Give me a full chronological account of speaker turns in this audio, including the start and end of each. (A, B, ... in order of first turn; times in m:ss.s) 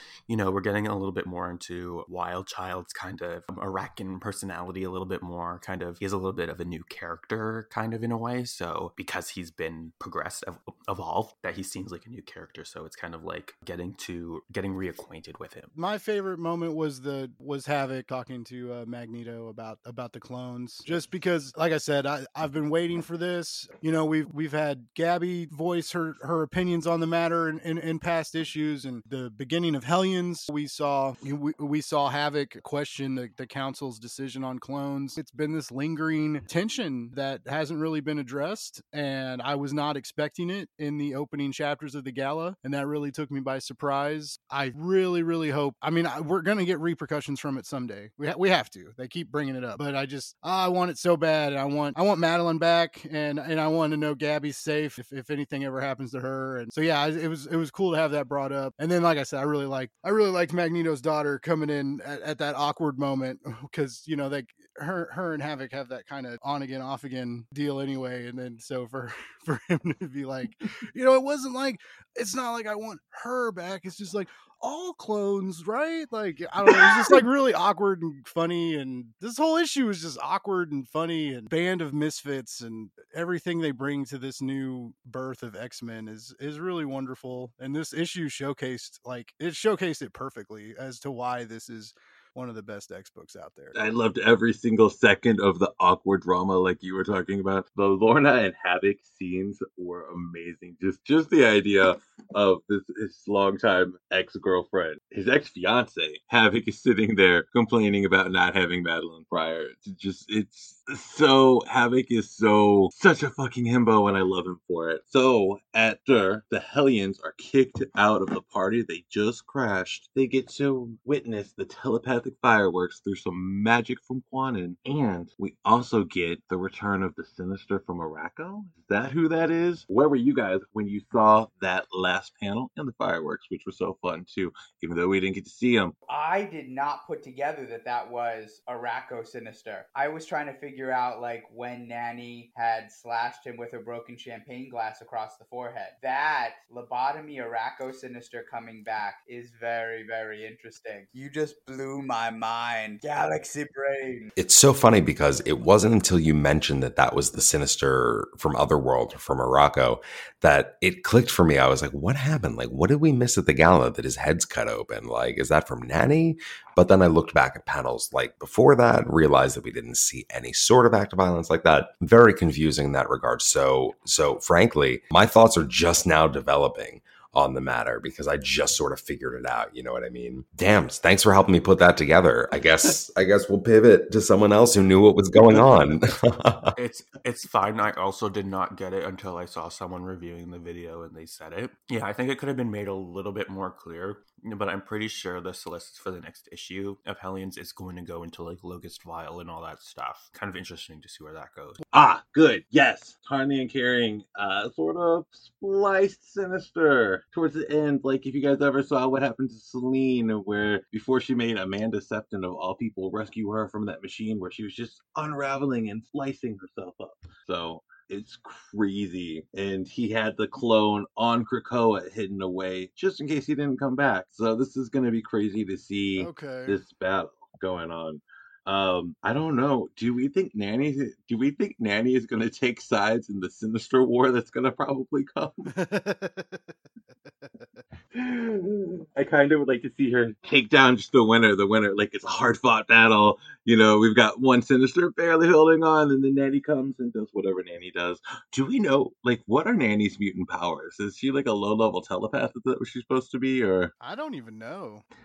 0:00.3-0:15.7 A
0:15.7-1:33.8 B
1:33.7-2:15.9 C
2:16.1-2:34.3 D
2:34.4-3:06.7 E
3:06.8-3:21.8 A
3:21.9-3:55.7 C
3:46.2-3:46.8 B
3:55.7-3:57.5 B
3:58.1-4:13.9 C
4:14.0-4:15.0 B